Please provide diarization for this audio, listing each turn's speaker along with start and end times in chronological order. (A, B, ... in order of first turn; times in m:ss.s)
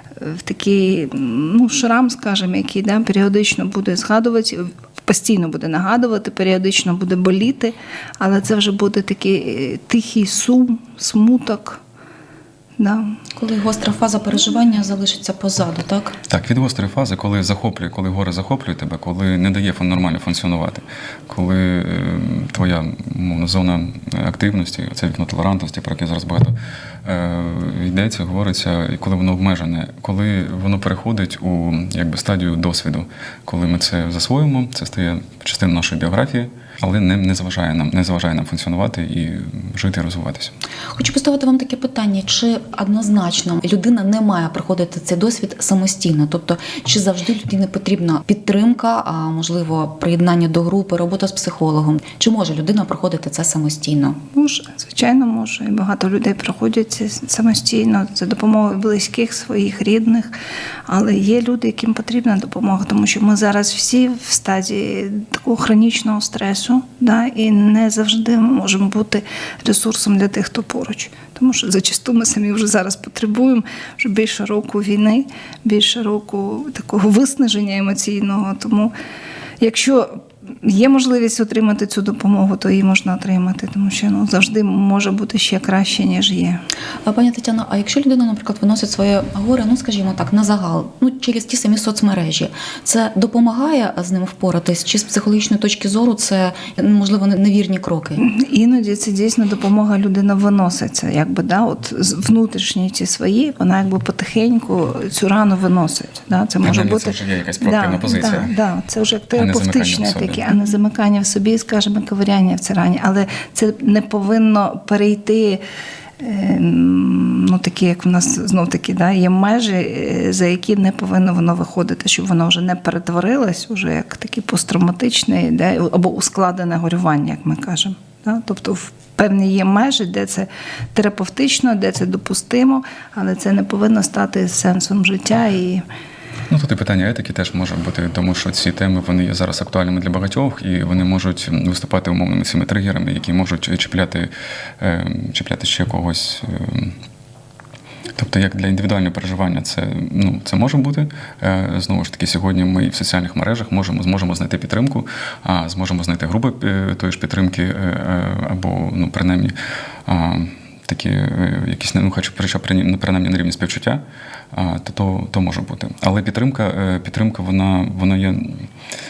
0:00.2-0:11.8 A
0:12.8-0:13.2 A
0:13.4-0:16.2 B
0:16.3-0:40.5 C
0:41.0-0:54.2 B
0:54.3-1:00.3 A
1:00.9-1:18.9 A
1:19.6-1:26.6 A
1:27.1-1:38.2 B
1:38.2-1:55.6 A
1:46.6-1:48.5 C
1:49.4-1:50.4 C
1:56.2-2:15.8 A
2:16.5-2:27.0 C
2:28.2-2:39.5 C
2:40.0-2:48.7 C